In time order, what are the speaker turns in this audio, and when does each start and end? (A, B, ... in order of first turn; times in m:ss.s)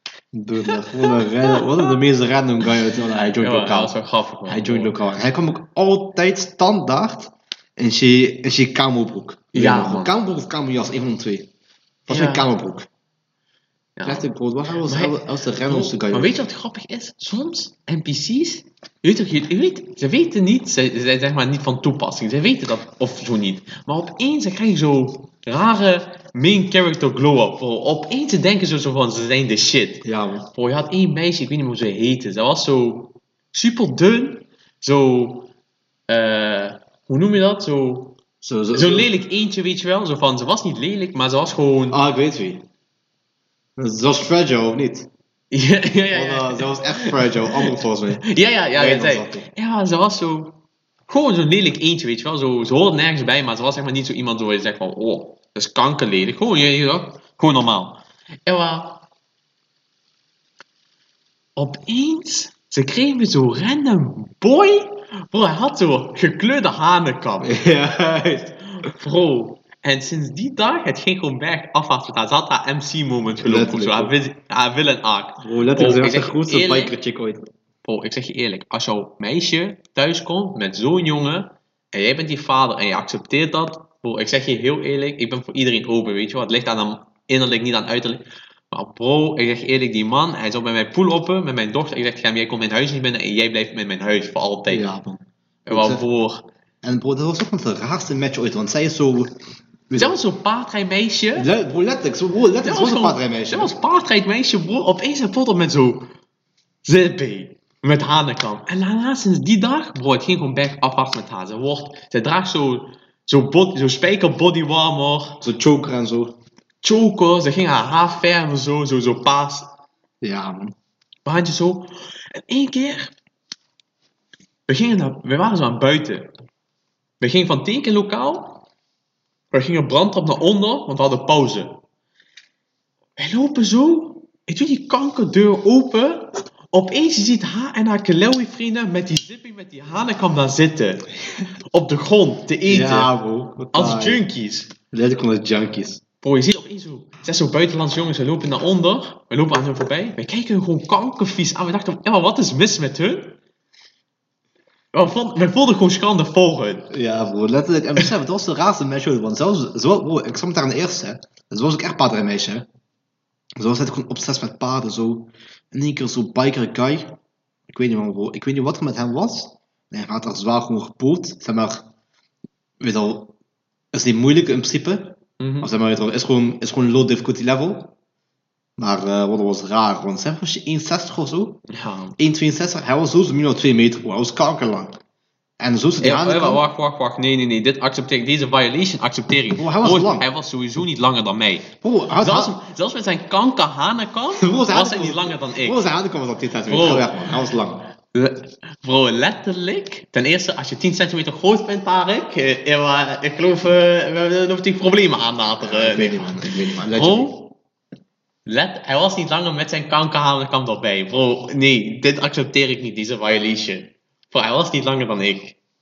0:00.3-0:11.5 A
0:03.4-0:05.0 B
0:09.5-0:10.1 B
0:12.1-0:12.9 A
0:12.1-0:12.5 B
0:14.0-0:14.3 B
0:14.0-0:16.4 A
0:14.8-0:35.5 B
0:30.0-0:30.5 A
0:36.1-0:42.0 B
0:38.4-0:39.1 A
0:41.9-0:42.6 A
0:43.8-0:45.1 A
0:45.5-0:59.0 B
0:46.1-0:49.5 A
1:01.6-1:07.6 B
1:07.4-1:08.6 A
1:08.8-1:16.9 B
1:13.4-1:14.1 A
1:15.4-1:17.4 A
1:17.8-1:34.9 B
1:34.7-1:36.0 A
1:35.6-1:36.5 B
1:36.8-1:39.3 A
1:39.9-1:40.2 A
1:40.0-1:41.5 B
1:41.4-1:43.7 A
1:42.6-1:46.1 B
1:46.8-1:55.4 B
1:55.4-1:56.4 A
1:56.8-1:59.7 B
2:00.2-2:00.7 A
2:01.2-2:03.1 B
2:04.7-2:06.3 B
2:07.2-2:08.6 B
2:09.5-2:11.8 B
2:13.2-2:21.1 B
2:21.7-2:23.1 B
2:22.7-2:24.2 A
2:23.7-2:24.7 B
2:24.9-2:26.0 A
2:26.2-2:33.4 B
2:34.9-2:36.9 B
2:36.9-2:42.7 A
2:43.6-2:51.9 A
2:52.8-2:53.3 A
2:53.9-2:57.9 A
2:55.4-2:55.7 B
2:58.8-3:01.6 A
3:01.7-3:02.2 B
3:02.2-3:05.0 A
3:05.6-3:06.6 A
3:06.0-3:15.8 B
3:09.5-3:10.3 A
3:11.8-3:12.6 A
3:14.4-3:17.9 A
3:16.6-3:17.3 B
3:18.1-3:27.5 B
3:25.6-3:27.4 A
3:28.4-3:35.6 B